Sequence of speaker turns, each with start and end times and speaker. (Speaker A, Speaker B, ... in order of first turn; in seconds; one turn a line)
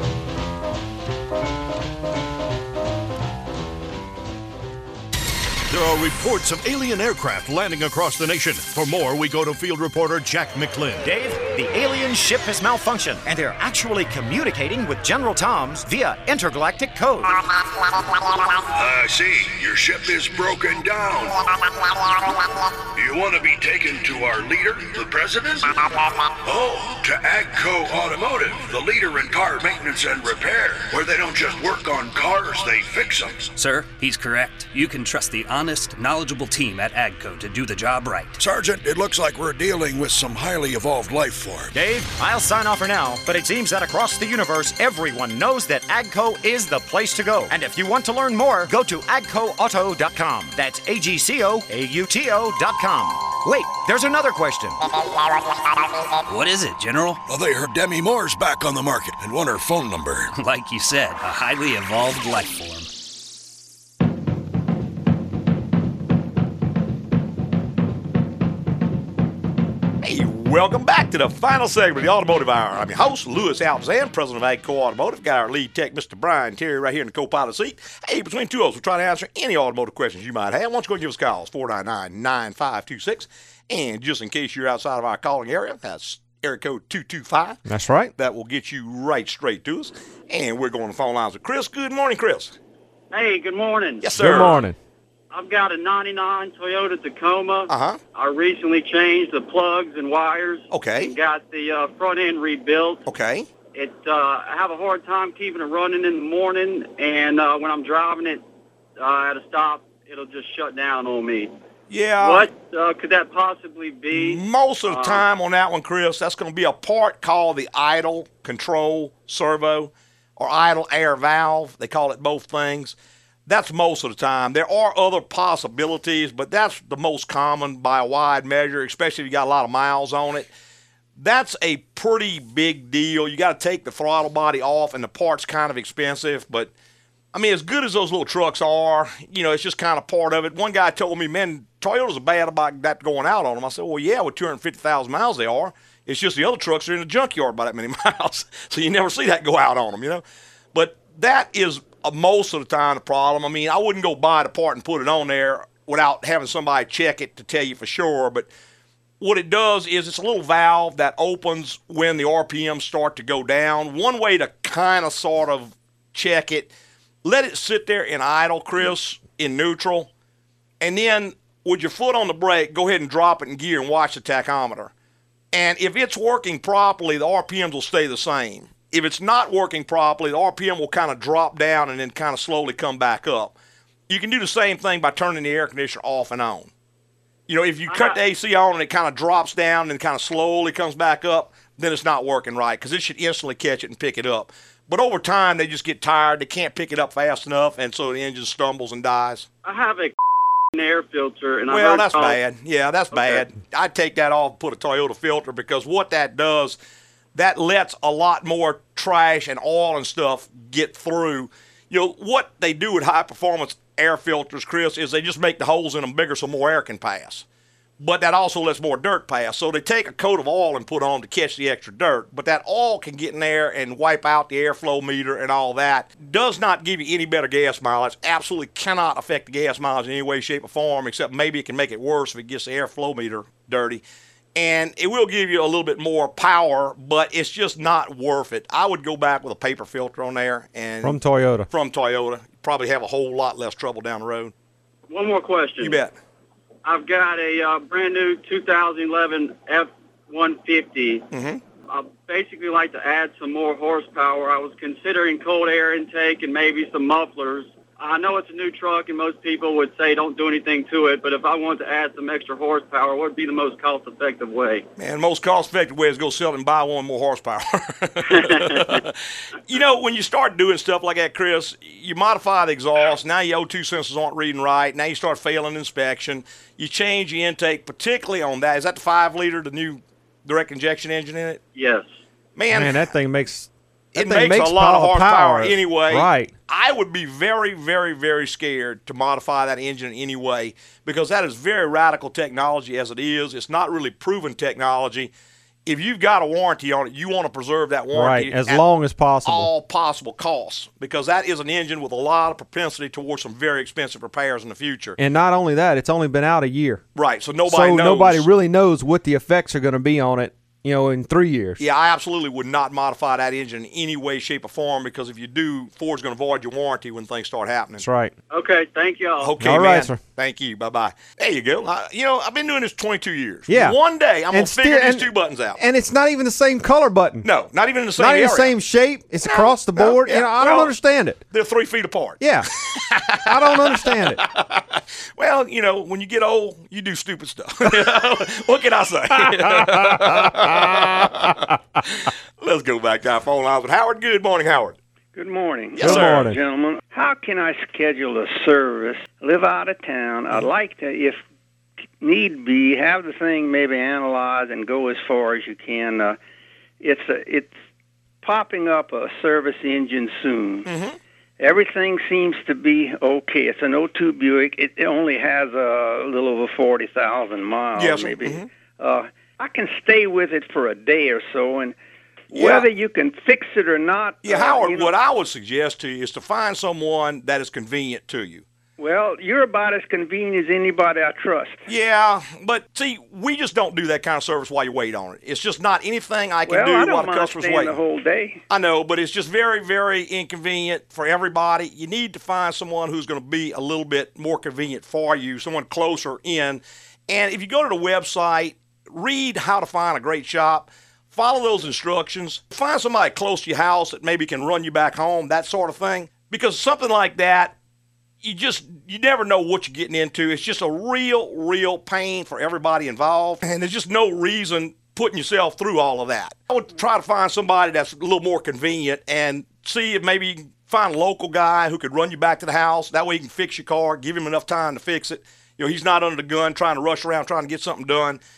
Speaker A: 5.7-11.1
Speaker B: 11.0-17.4
Speaker C: 18.7-21.5
Speaker C: 22.9-33.5
Speaker D: 33.5-38.4
Speaker C: 38.4-41.7
Speaker B: 41.7-54.8
Speaker D: 56.2-57.2
Speaker C: 57.2-60.3
Speaker D: 60.3-62.9
Speaker E: 70.0-87.6
Speaker F: 87.7-88.1
Speaker E: 88.2-92.5
Speaker G: 93.1-94.1
Speaker E: 94.0-94.6
Speaker F: 94.2-94.8
Speaker G: 95.3-103.0
Speaker E: 97.7-98.0
Speaker E: 100.7-101.1
Speaker E: 103.1-103.5
Speaker G: 103.7-108.4
Speaker G: 109.0-111.5
Speaker E: 111.9-112.5
Speaker G: 112.2-115.2
Speaker E: 114.1-122.9
Speaker E: 123.5-130.5
Speaker E: 131.2-136.7
Speaker E: 137.3-150.2
Speaker E: 150.7-158.5
Speaker E: 159.2-166.7
Speaker E: 167.2-170.1
Speaker E: 170.8-174.9
Speaker E: 175.5-183.5
Speaker E: 184.1-186.7
Speaker E: 187.5-199.4
Speaker G: 187.9-188.2
Speaker G: 199.6-200.1
Speaker G: 200.7-202.4
Speaker E: 201.7-206.8
Speaker G: 203.1-203.4
Speaker E: 207.3-217.4
Speaker E: 218.0-234.0
Speaker E: 234.5-241.2
Speaker F: 241.0-241.7
Speaker E: 241.7-244.5
Speaker G: 245.1-246.0
Speaker E: 245.8-246.1
Speaker G: 246.8-251.2
Speaker E: 251.3-251.6
Speaker G: 251.9-264.8
Speaker E: 265.0-269.1
Speaker G: 268.4-268.9
Speaker E: 269.7-281.6
Speaker G: 281.7-282.1
Speaker E: 282.6-283.1
Speaker F: 282.7-286.5
Speaker E: 284.1-295.3
Speaker E: 295.9-298.8
Speaker F: 298.1-299.7
Speaker E: 299.4-305.2
Speaker F: 305.2-307.0
Speaker E: 307.1-308.5
Speaker F: 307.7-311.8
Speaker E: 311.8-318.0
Speaker F: 318.0-318.3
Speaker G: 318.5-319.6
Speaker E: 319.4-325.8
Speaker F: 319.6-320.2
Speaker F: 323.7-323.9
Speaker F: 324.5-327.5
Speaker E: 327.4-328.7
Speaker F: 328.2-331.4
Speaker E: 329.4-330.9
Speaker E: 331.5-345.0
Speaker F: 332.4-332.7
Speaker F: 333.4-334.4
Speaker F: 340.5-341.0
Speaker H: 345.3-351.4
Speaker E: 345.9-346.5
Speaker F: 346.0-346.6
Speaker H: 352.2-356.4
Speaker H: 357.0-357.7
Speaker H: 358.4-360.9
Speaker E: 360.9-361.1
Speaker H: 361.6-371.9
Speaker E: 367.9-368.7
Speaker H: 372.5-375.1
Speaker E: 372.5-372.9
Speaker E: 374.4-378.6
Speaker H: 379.0-381.8
Speaker E: 381.9-388.0
Speaker H: 386.6-388.6
Speaker E: 388.7-407.7
Speaker E: 408.4-428.4